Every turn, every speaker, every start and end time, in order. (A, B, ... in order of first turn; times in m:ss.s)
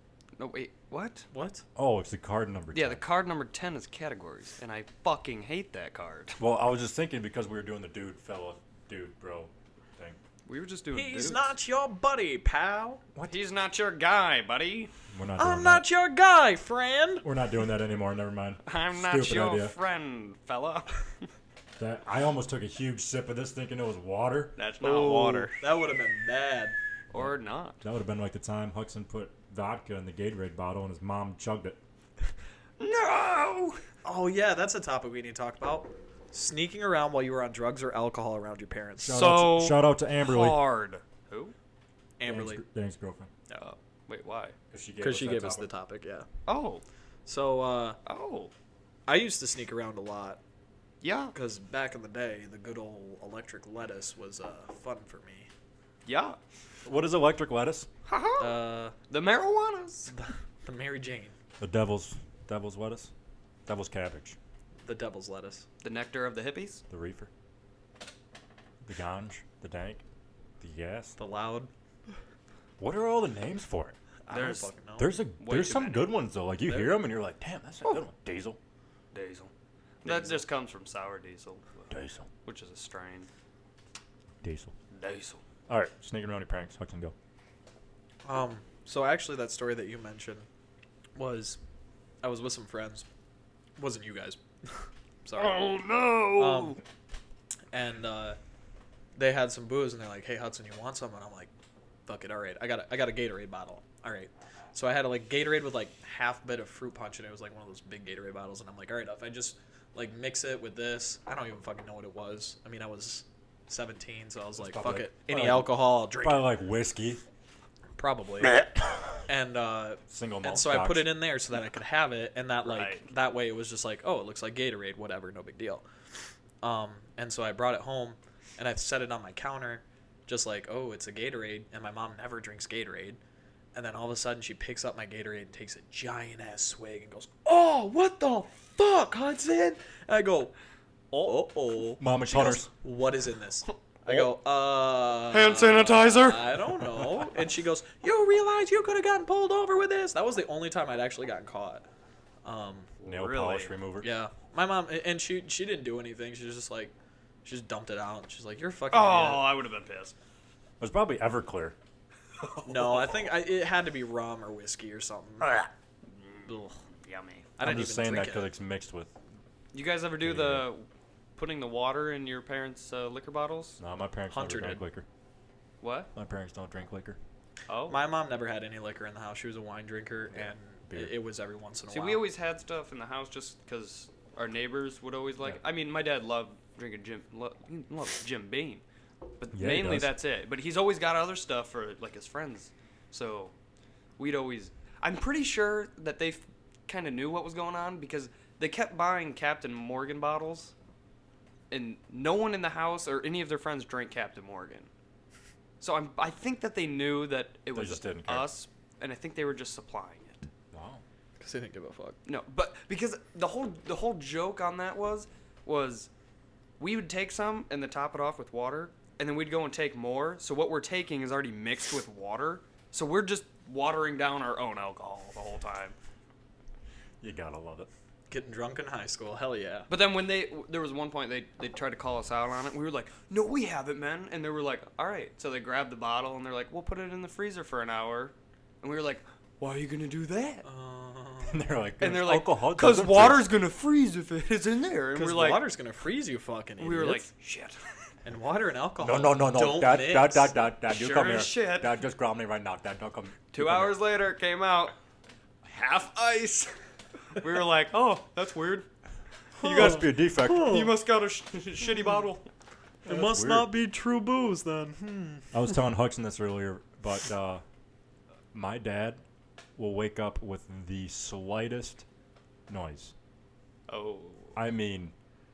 0:00.4-0:01.3 A
0:01.3-0:01.6 B
0:01.8-0:03.0 C
0:02.7-0:06.4 A
0:06.4-0:10.2 C
0:10.4-0:11.5 A
0:10.9-0:13.0 B
0:13.3-0:14.9 A
0:15.1-0:15.8 C
0:15.4-0:17.2 B
0:17.2-0:19.8 C
0:18.6-0:21.3 A
0:21.8-0:24.6 C
0:24.6-0:25.6 A
0:24.8-0:26.8 B
0:27.1-0:27.8 A
0:27.1-0:31.8 C
0:32.8-0:33.8 A
0:34.0-0:39.2 B
0:39.0-0:40.6 C
0:39.1-0:41.5 A
0:42.2-0:42.6 B
0:42.2-0:43.3 C
0:43.5-0:44.6 A
0:44.7-0:45.7 C
0:45.0-0:46.3 B
0:46.5-0:46.8 A
0:47.2-0:48.0 B
0:48.0-0:48.5 A
0:49.1-0:50.4 B
0:51.0-0:51.3 A
0:51.3-0:55.5 B
0:56.0-0:56.4 A
0:56.8-0:57.9 C
0:58.0-1:00.1 A
0:58.4-0:58.9 B
1:00.1-1:01.3 B
1:01.6-1:03.1 C
1:03.7-1:04.4 C
1:04.8-1:05.6 B
1:05.8-1:06.8 A
1:06.9-1:07.3 C
1:08.8-1:10.0 C
1:10.6-1:11.2 C
1:11.2-1:11.7 B
1:12.8-1:13.9 C
1:14.3-1:15.1 B
1:14.3-1:14.7 A
1:15.0-1:18.6 C
1:15.4-1:16.1 A
1:16.7-1:17.0 A
1:19.1-1:19.5 A
1:20.0-1:23.3 A
1:20.0-1:20.4 B
1:21.9-1:22.3 C
1:24.4-1:24.7 C
1:24.9-1:25.4 A
1:25.7-1:27.1 C
1:28.2-1:30.5 B
1:31.2-1:31.6 B
1:32.2-1:33.0 B
1:33.8-1:35.6 B
1:35.3-1:36.8 A
1:36.3-1:36.8 B
1:37.7-1:38.4 B
1:39.2-1:41.5 B
1:42.0-1:56.4 B
1:54.6-1:57.2 C
1:58.0-1:58.6 B
1:59.3-2:05.8 B
2:00.1-2:01.2 C
2:02.6-2:03.1 A
2:06.6-2:13.2 B
2:13.7-2:20.5 B
2:21.1-2:31.8 B
2:22.0-2:22.7 C
2:25.3-2:26.5 A
2:32.4-2:32.9 B
2:33.0-2:33.8 A
2:33.0-2:34.1 C
2:34.0-2:36.9 B
2:37.4-2:39.5 B
2:38.9-2:40.1 A
2:40.8-2:41.8 C
2:42.4-2:43.3 A
2:42.6-2:45.5 B
2:45.4-2:47.5 A
2:47.6-2:48.5 B
2:47.6-2:49.2 C
2:49.7-2:50.8 A
2:50.2-2:50.7 C
2:51.4-2:53.8 A
2:53.8-2:55.0 C
2:54.3-2:54.8 B
2:55.8-2:56.1 A
2:56.1-2:57.2 C
2:57.7-2:58.0 A
2:57.9-3:02.2 B
3:00.3-3:01.2 C
3:01.9-3:08.8 A
3:09.4-3:13.5 A
3:09.5-3:10.1 C
3:14.2-3:20.7 A
3:21.7-3:24.9 A
3:25.8-3:30.5 A
3:27.7-3:28.5 C
3:30.7-3:31.0 C
3:31.4-3:32.2 B
3:32.2-3:36.1 A
3:36.8-3:45.9 A
3:47.2-3:47.9 C
3:48.3-3:49.9 B
3:49.9-4:00.6 A
4:00.6-4:01.6 B
4:01.4-4:03.5 C
4:02.0-4:05.6 A
4:05.1-4:07.3 B
4:06.8-4:07.8 A
4:08.2-4:10.5 B
4:09.0-4:14.0 C
4:10.8-4:11.9 A
4:13.5-4:15.0 A
4:15.6-4:16.7 A
4:17.3-4:18.9 A
4:19.6-4:22.5 A
4:19.6-4:20.8 C
4:19.6-4:20.9 B
4:23.0-4:23.7 C
4:23.0-4:25.5 B
4:25.5-4:27.6 C
4:28.5-4:29.2 C
4:29.8-4:32.0 C
4:32.7-4:33.1 C
4:33.9-4:34.6 A
4:34.5-4:35.1 C